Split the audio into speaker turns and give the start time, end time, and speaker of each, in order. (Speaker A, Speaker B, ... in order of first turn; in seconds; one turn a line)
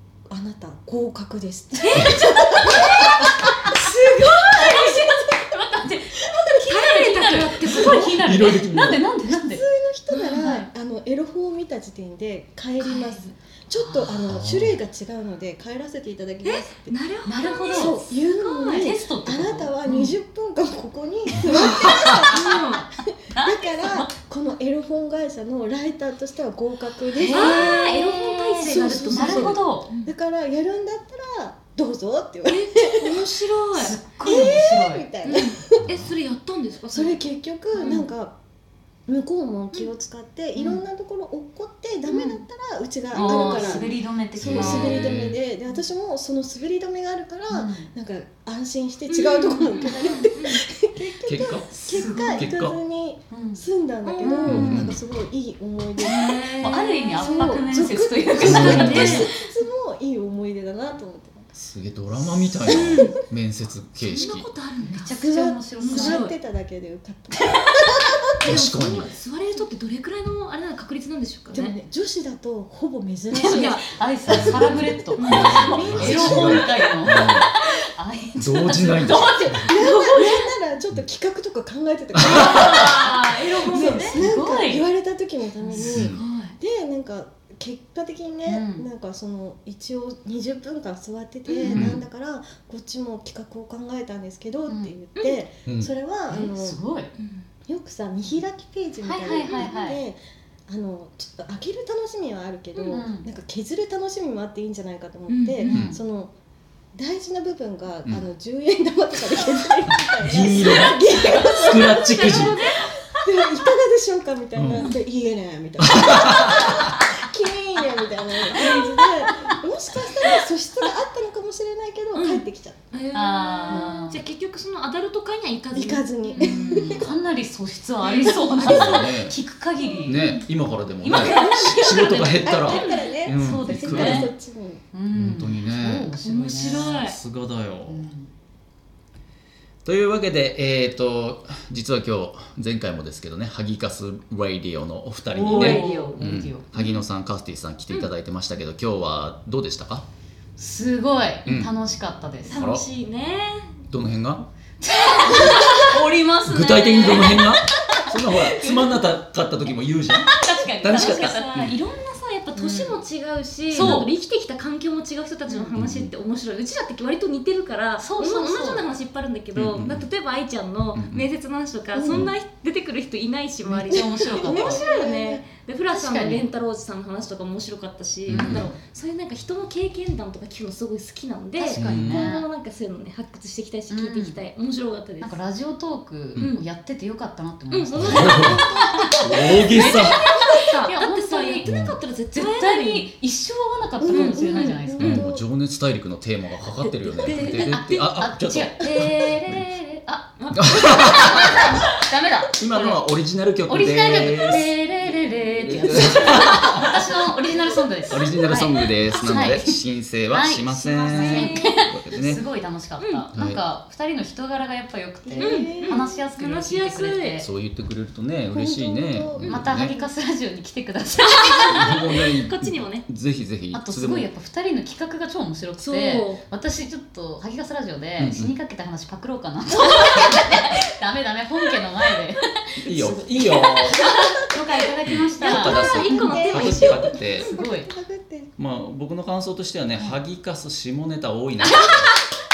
Speaker A: 0.3-5.2
Speaker B: 1.8-4.8
Speaker C: 2.7-3.8
Speaker C: 4.4-9.6
Speaker B: 6.6-8.2
Speaker D: 7.7-9.0
Speaker A: 9.2-17.0
Speaker B: 10.1-10.7
Speaker C: 10.4-10.7
Speaker B: 12.8-13.3
Speaker C: 13.8-14.2
Speaker D: 14.3-14.8
Speaker B: 16.4-18.9
Speaker C: 17.2-18.0
Speaker A: 17.7-27.7
Speaker C: 18.7-19.8
Speaker B: 21.5-22.9
Speaker C: 23.3-24.1
Speaker B: 27.2-30.1
Speaker C: 27.3-29.9
Speaker A: 28.6-33.3
Speaker B: 32.5-34.0
Speaker C: 33.8-35.1
Speaker A: 34.2-35.9
Speaker B: 35.2-37.2
Speaker D: 35.9-36.1
Speaker A: 36.9-38.4
Speaker B: 37.7-38.0
Speaker C: 37.8-38.1
Speaker A: 39.1-61.5
Speaker C: 42.1-42.4
Speaker B: 43.1-43.8
Speaker C: 43.1-45.1
Speaker D: 44.4-45.4
Speaker C: 47.5-47.9
Speaker B: 49.1-50.6
Speaker D: 51.2-52.8
Speaker C: 51.9-52.5
Speaker B: 51.9-52.2
Speaker C: 53.3-53.6
Speaker B: 54.0-54.5
Speaker C: 54.2-54.8
Speaker D: 54.4-55.0
Speaker B: 56.0-57.8
Speaker C: 56.6-59.3
Speaker D: 58.4-59.2
Speaker B: 58.4-59.3
Speaker D: 61.5-64.5
Speaker B: 62.6-63.2
Speaker A: 62.6-63.1
Speaker B: 64.0-65.2
Speaker C: 64.8-66.3
Speaker A: 65.2-68.2
Speaker B: 65.8-66.3
Speaker D: 68.4-69.2
Speaker B: 68.4-71.8
Speaker A: 71.5-76.7
Speaker C: 73.3-79.6
Speaker B: 73.4-73.8
Speaker D: 74.3-77.5
Speaker B: 75.2-75.6
Speaker D: 78.4-79.7
Speaker B: 79.0-80.5
Speaker A: 79.5-83.1
Speaker D: 82.1-83.1
Speaker B: 82.2-84.2
Speaker C: 83.7-84.8
Speaker A: 83.7-96.8
Speaker D: 85.8-86.2
Speaker B: 85.8-86.6
Speaker C: 88.5-88.9
Speaker B: 91.5-91.7
Speaker D: 91.7-92.0
Speaker C: 91.7-92.0
Speaker C: 94.7-94.9
Speaker B: 95.2-95.4
Speaker D: 95.7-95.9
Speaker C: 96.3-97.1
Speaker B: 97.2-97.5
Speaker A: 97.7-106.3
Speaker C: 99.0-100.0
Speaker B: 99.4-99.7
Speaker B: 102.8-103.0
Speaker C: 102.9-103.3
Speaker B: 105.3-105.8
Speaker D: 105.7-106.0
Speaker C: 105.7-106.0
Speaker A: 107.0-122.8
Speaker D: 110.2-112.6
Speaker B: 111.9-112.9
Speaker D: 114.5-114.9
Speaker D: 115.8-116.9
Speaker B: 118.5-118.9
Speaker B: 122.1-126.9
Speaker C: 123.1-124.2
Speaker A: 123.7-124.0
Speaker A: 125.7-127.1
Speaker C: 126.3-130.3
Speaker B: 128.0-129.0
Speaker D: 128.6-129.4
Speaker D: 130.1-134.3
Speaker C: 131.0-134.3
Speaker B: 131.1-131.7
Speaker B: 132.3-133.2
Speaker A: 132.4-134.8
Speaker C: 134.9-137.0
Speaker D: 135.1-138.1
Speaker B: 136.2-137.2
Speaker C: 137.8-138.3
Speaker D: 139.8-150.1
Speaker C: 145.3-146.7
Speaker B: 145.4-146.2
Speaker C: 150.6-152.7
Speaker D: 151.4-151.7
Speaker B: 152.5-153.8
Speaker D: 152.5-152.8
Speaker D: 153.9-154.5
Speaker C: 154.8-158.9
Speaker B: 154.9-155.9
Speaker D: 156.4-161.8
Speaker B: 157.1-157.4
Speaker C: 160.1-161.6
Speaker B: 160.9-185.4
Speaker C: 162.6-163.0
Speaker C: 163.7-164.1
Speaker D: 163.7-164.1
Speaker D: 165.8-166.1
Speaker C: 168.0-168.8
Speaker D: 169.6-170.1
Speaker D: 170.9-171.3
Speaker A: 171.9-172.3
Speaker C: 173.7-174.8
Speaker A: 173.9-175.4
Speaker C: 175.9-176.4
Speaker D: 178.3-178.7
Speaker C: 178.3-178.8
Speaker C: 181.6-182.5
Speaker D: 181.6-182.3
Speaker C: 183.9-184.4
Speaker C: 185.2-191.7
Speaker B: 186.4-186.6
Speaker B: 187.7-193.1
Speaker D: 187.9-188.6
Speaker A: 188.3-189.0
Speaker D: 189.2-190.2
Speaker D: 191.6-192.0
Speaker C: 192.3-195.2
Speaker A: 194.0-195.4
Speaker B: 194.1-194.8
Speaker D: 195.0-199.6
Speaker B: 196.8-197.8
Speaker C: 197.4-203.1
Speaker B: 200.4-201.8
Speaker D: 200.6-201.7
Speaker D: 202.6-204.8
Speaker C: 203.7-209.8
Speaker D: 205.6-206.9
Speaker A: 205.7-206.7
Speaker D: 208.1-212.4
Speaker C: 210.3-217.5
Speaker B: 211.1-211.8
Speaker B: 213.0-213.3
Speaker D: 213.3-213.6
Speaker A: 215.2-216.2
Speaker B: 215.4-217.4
Speaker D: 217.4-219.9
Speaker A: 218.5-220.1
Speaker C: 219.4-221.9
Speaker B: 221.2-223.1
Speaker D: 221.7-224.3
Speaker C: 223.7-232.6
Speaker B: 225.8-226.4
Speaker D: 228.2-228.5
Speaker B: 229.8-230.6
Speaker D: 232.8-234.1
Speaker B: 232.9-237.1
Speaker C: 233.9-236.4
Speaker D: 235.1-237.6
Speaker A: 235.6-238.5
Speaker C: 237.4-237.9
Speaker D: 238.6-241.9
Speaker C: 241.7-242.1